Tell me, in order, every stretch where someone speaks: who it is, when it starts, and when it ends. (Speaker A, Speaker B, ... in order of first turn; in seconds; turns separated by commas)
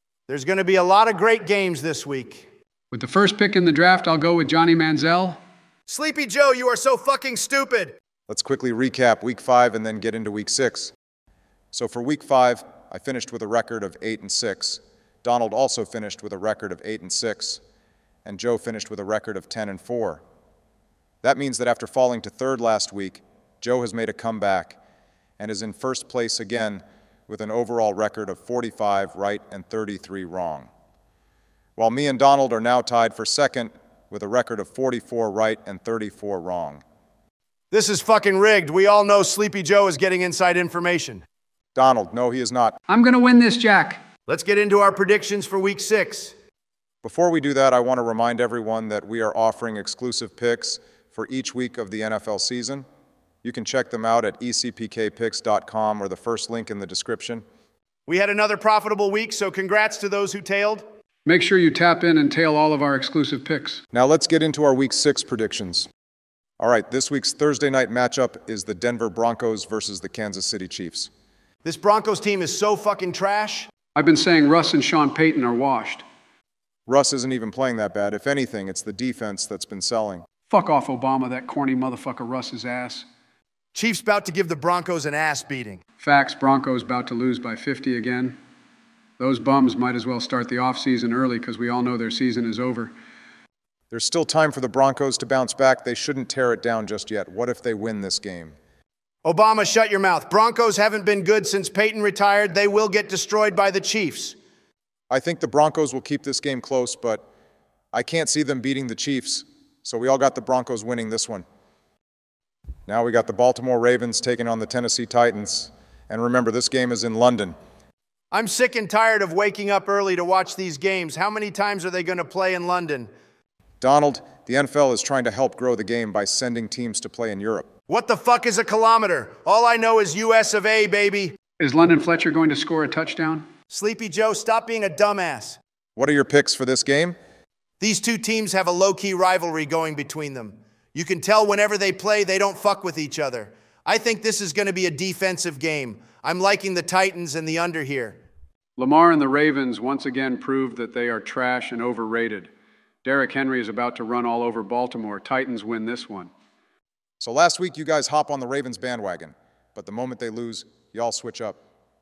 Speaker A: 0.3-2.5, Speaker B: 2.9-5.4, Speaker A: 5.9-8.0, Speaker C: 8.3-10.9, Speaker C: 11.7-17.6, Speaker C: 18.2-20.2, Speaker C: 21.2-24.8, Speaker C: 25.4-30.7, Speaker C: 31.8-36.8, Speaker A: 37.7-41.2, Speaker C: 41.7-42.8, Speaker B: 42.9-44.0, Speaker A: 44.3-46.3, Speaker C: 47.0-52.9, Speaker C: 53.4-57.5, Speaker A: 58.1-60.8, Speaker B: 61.2-63.8, Speaker C: 63.9-65.9, Speaker C: 66.6-71.1, Speaker A: 71.6-73.7, Speaker B: 74.0-76.0, Speaker C: 76.9-80.2, Speaker B: 80.5-83.0, Speaker A: 83.7-85.8, Speaker B: 86.0-88.4, Speaker B: 89.2-92.9, Speaker C: 93.9-98.5, Speaker A: 99.2-104.4, Speaker C: 105.1-107.2, Speaker C: 107.9-111.4, Speaker C: 112.9-117.5, Speaker A: 118.3-123.1, Speaker C: 123.8-127.7, Speaker A: 127.9-131.4, Speaker B: 131.6-133.4, Speaker A: 133.7-135.6, Speaker C: 135.9-137.2, Speaker A: 137.8-148.2, Speaker B: 148.8-152.5, Speaker B: 153.0-156.3, Speaker C: 157.2-161.6